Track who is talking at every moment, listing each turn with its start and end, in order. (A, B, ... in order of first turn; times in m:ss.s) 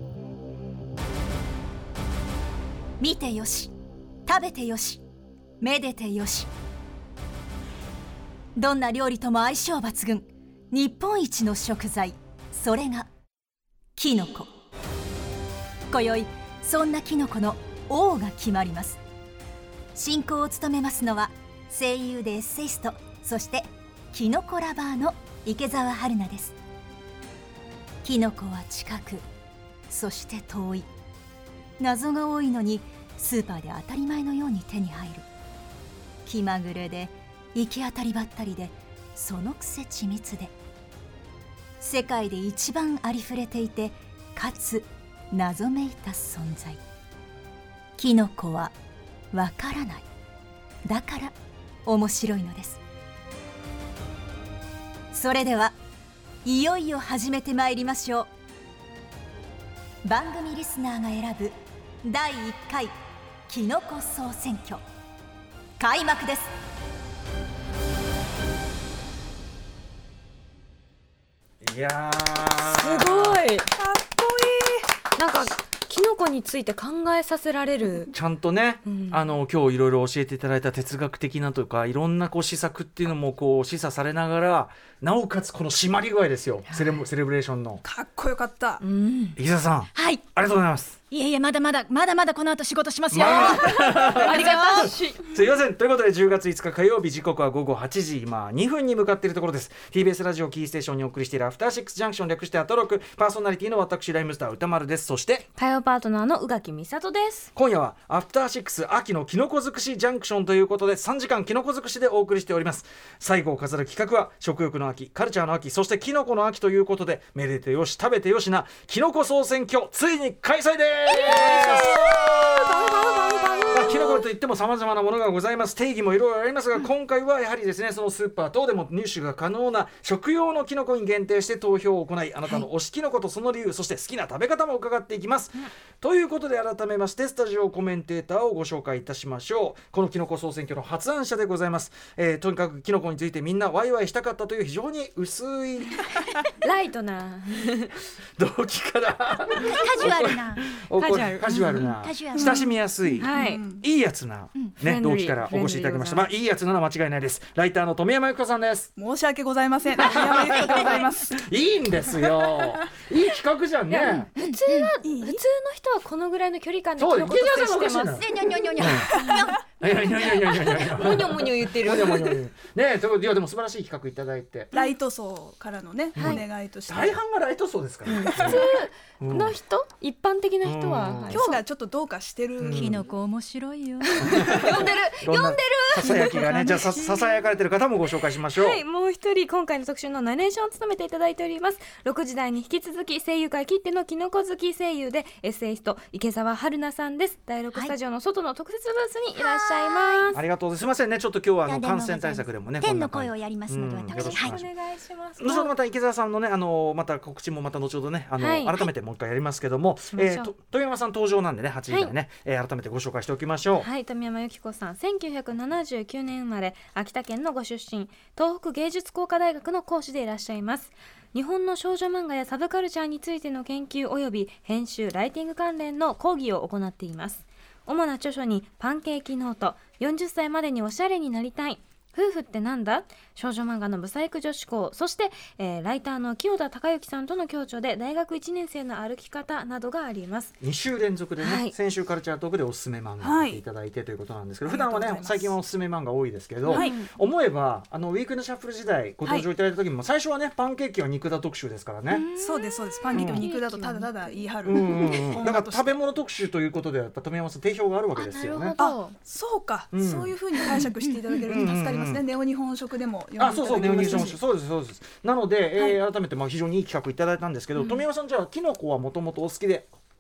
0:03.0-0:05.0 A
0:05.6-0:06.5 A
0:08.6-0:13.1 A
0:14.0-0:14.5 A
0:15.9-0:19.0 A
0:19.9-0:26.6 A
0:28.0-0:29.3 A
0:29.9-0:30.9 A
0:31.8-0:35.3 A
0:36.3-0:40.5 A
0:41.8-0:46.8 A
0:48.0-0:48.7 A
0:49.3-0:50.1 A
0:50.8-0:52.8 A
0:55.1-0:55.8 A
0:56.4-0:58.3 A
1:00.0-1:02.9 A
1:03.5-1:04.8 A
1:05.8-1:06.5 A
1:11.6-1:13.4 B
1:12.7-1:13.7 C
1:13.8-1:14.9 D
1:15.2-1:18.1 C
1:18.1-1:27.8 B
1:18.8-1:19.2 C
1:26.7-1:27.0 C
1:27.8-1:28.8 D
1:28.8-1:29.4 C
1:29.4-1:31.0 B
1:30.0-1:30.2 A
1:31.1-1:34.9 A
1:33.1-1:45.5 B
1:33.2-1:35.3 C
1:45.6-1:47.5 C
1:47.6-2:03.1 B
2:01.1-2:04.3 C
2:03.7-2:26.3 B
2:26.6-2:27.9 C
2:28.4-2:38.9 B
2:29.6-2:30.6 A
2:31.0-2:31.9 C
2:32.0-2:32.7 A
2:32.3-2:32.7 D
2:33.2-2:33.6 C
2:33.3-2:33.8 D
2:34.8-2:36.3 C
2:39.0-2:41.4 D
2:40.0-2:44.3 B
2:40.5-2:41.0 A
2:43.9-2:48.2 C
2:44.4-2:44.9 A
2:45.0-2:45.4 D
2:47.0-2:49.1 B
2:48.2-2:49.7 A
2:49.1-2:49.4 D
2:49.7-2:54.7 B
2:50.5-2:52.4 C
2:54.7-2:57.2 D
2:56.2-2:59.6 B
2:56.2-2:56.4 C
2:58.1-3:01.6 C
3:00.6-3:01.4 B
3:01.3-3:03.0 D
3:02.6-3:03.0 B
3:02.7-3:04.6 A
3:04.1-3:07.2 C
3:04.2-3:08.8 B
3:08.5-3:20.4 C
3:19.4-3:20.3 A
3:20.3-3:24.7 B
3:21.7-3:24.6 A
3:24.1-3:25.7 C
3:25.4-3:33.9 B
3:28.4-3:28.9 C
3:30.1-3:30.5 C
3:33.8-4:00.6 C
4:00.6-4:12.3 B
4:01.4-4:01.8 C
4:03.2-4:03.6 D
4:04.7-4:05.6 D
4:06.7-4:07.0 D
4:06.7-4:07.1 C
4:12.1-4:12.8 A
4:12.4-4:16.0 D
4:13.1-4:13.5 B
4:13.2-4:15.4 C
4:14.6-4:18.8 B
4:18.2-4:19.2 C
4:18.8-4:24.4 D
4:19.9-4:20.3 B
4:21.5-4:22.2 B
4:23.4-4:29.9 B
4:24.0-4:24.3 C